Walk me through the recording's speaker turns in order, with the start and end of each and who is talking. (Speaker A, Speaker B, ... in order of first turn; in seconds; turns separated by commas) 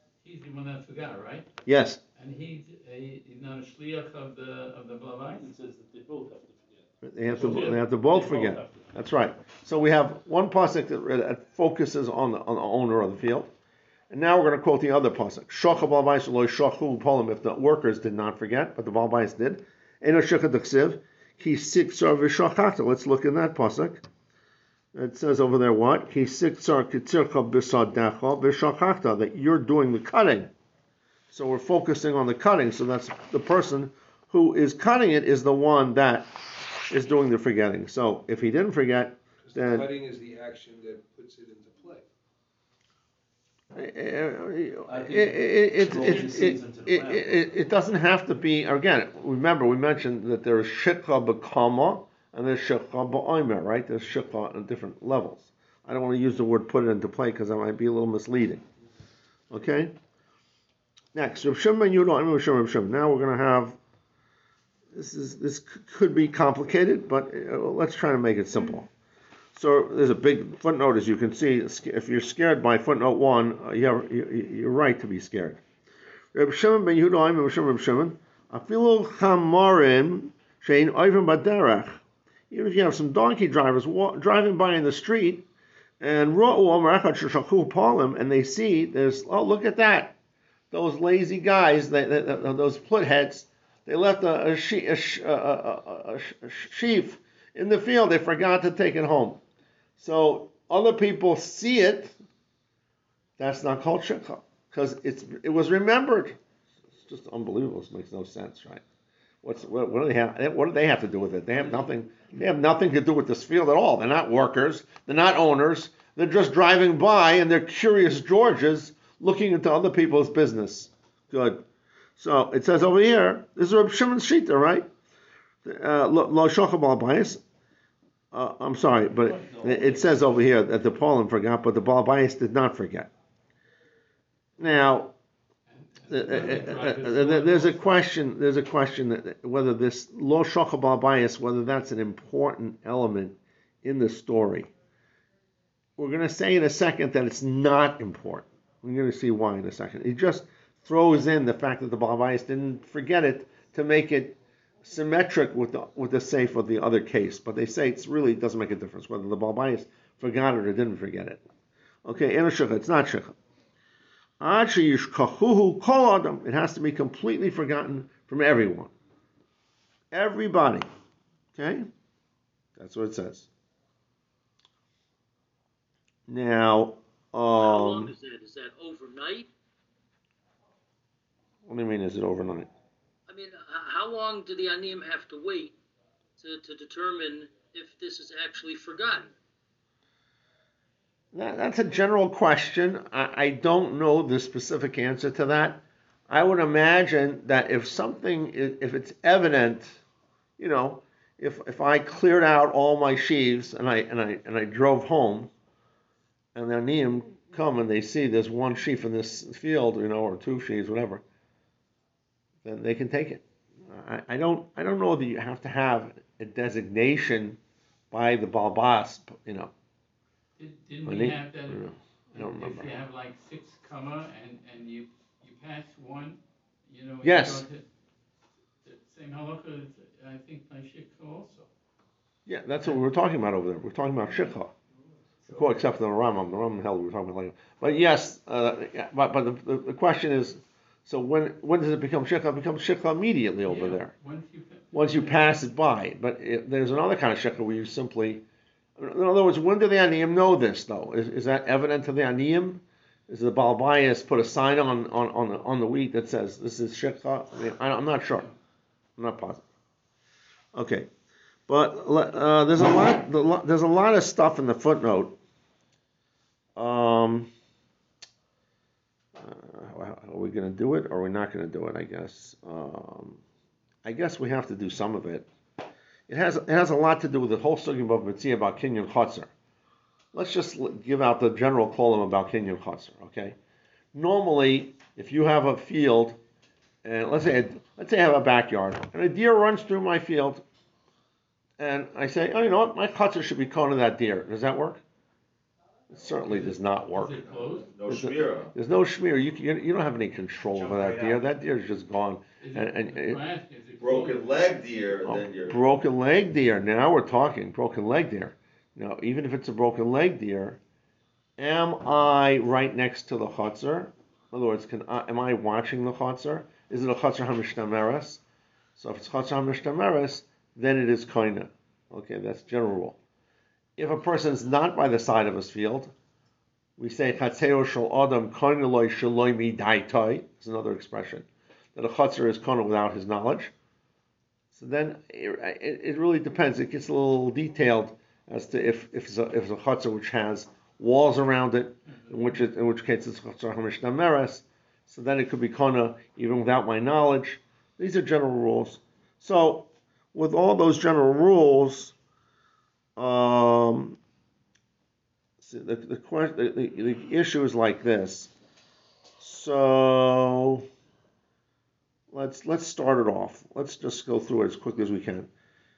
Speaker A: 0.2-1.5, Speaker B: 1.6-2.0, Speaker A: 2.2-5.5, Speaker C: 5.3-8.9, Speaker B: 7.0-13.5, Speaker A: 7.3-8.2, Speaker B: 14.1-24.0, Speaker B: 24.9-30.5, Speaker B: 31.3-36.3, Speaker B: 36.9-39.9, Speaker D: 39.5-42.0, Speaker B: 43.7-58.6, Speaker C: 44.9-47.5, Speaker A: 45.9-46.3, Speaker B: 59.5-59.9, Speaker B: 61.1-63.8, Speaker B: 64.9-68.9, Speaker B: 69.5-75.6, Speaker B: 76.3-85.5, Speaker B: 86.0-90.1, Speaker B: 90.7-99.4, Speaker B: 100.0-102.2, Speaker B: 103.4-106.4, Speaker B: 107.0-108.8, Speaker B: 109.4-121.6, Speaker B: 122.2-124.9, Speaker B: 125.6-127.4, Speaker B: 128.3-133.1, Speaker C: 129.1-130.3, Speaker B: 134.6-135.1, Speaker A: 135.8-138.0, Speaker B: 136.1-144.7, Speaker B: 146.0-161.4, Speaker B: 162.0-163.3, Speaker B: 164.4-168.9, Speaker B: 170.1-170.9, Speaker B: 171.5-171.9, Speaker B: 172.8-173.5, Speaker B: 176.3-178.1, Speaker E: 177.6-179.5, Speaker B: 181.7-182.7, Speaker E: 183.3-185.7, Speaker E: 186.4-189.3, Speaker B: 191.3-200.0, Speaker B: 200.6-205.5, Speaker B: 206.5-211.2, Speaker B: 212.6-217.6, Speaker B: 218.1-219.7, Speaker A: 220.6-227.8, Speaker B: 221.1-222.9, Speaker B: 227.2-227.6, Speaker A: 228.8-231.7, Speaker B: 232.4-234.7, Speaker A: 235.4-235.8, Speaker B: 235.5-244.1, Speaker A: 243.7-245.6, Speaker B: 244.9-248.4, Speaker B: 249.0-258.5, Speaker B: 259.2-259.6, Speaker B: 260.7-261.1, Speaker B: 261.7-265.4, Speaker B: 266.8-267.5, Speaker B: 269.4-273.4, Speaker B: 274.0-275.5, Speaker B: 276.3-279.5, Speaker B: 280.3-283.6, Speaker B: 284.1-286.4, Speaker B: 287.0-290.6, Speaker B: 291.8-295.0, Speaker B: 296.1-297.5, Speaker A: 296.4-297.9, Speaker F: 297.8-298.7, Speaker B: 298.1-303.4, Speaker A: 301.0-301.3, Speaker A: 302.6-304.8, Speaker F: 304.0-305.8, Speaker B: 305.2-310.8, Speaker B: 311.6-318.4, Speaker B: 319.0-323.2, Speaker B: 324.0-326.1, Speaker B: 327.0-333.7, Speaker B: 334.7-352.1, Speaker B: 353.2-354.2, Speaker B: 355.6-358.5, Speaker B: 359.4-360.8, Speaker B: 362.3-365.5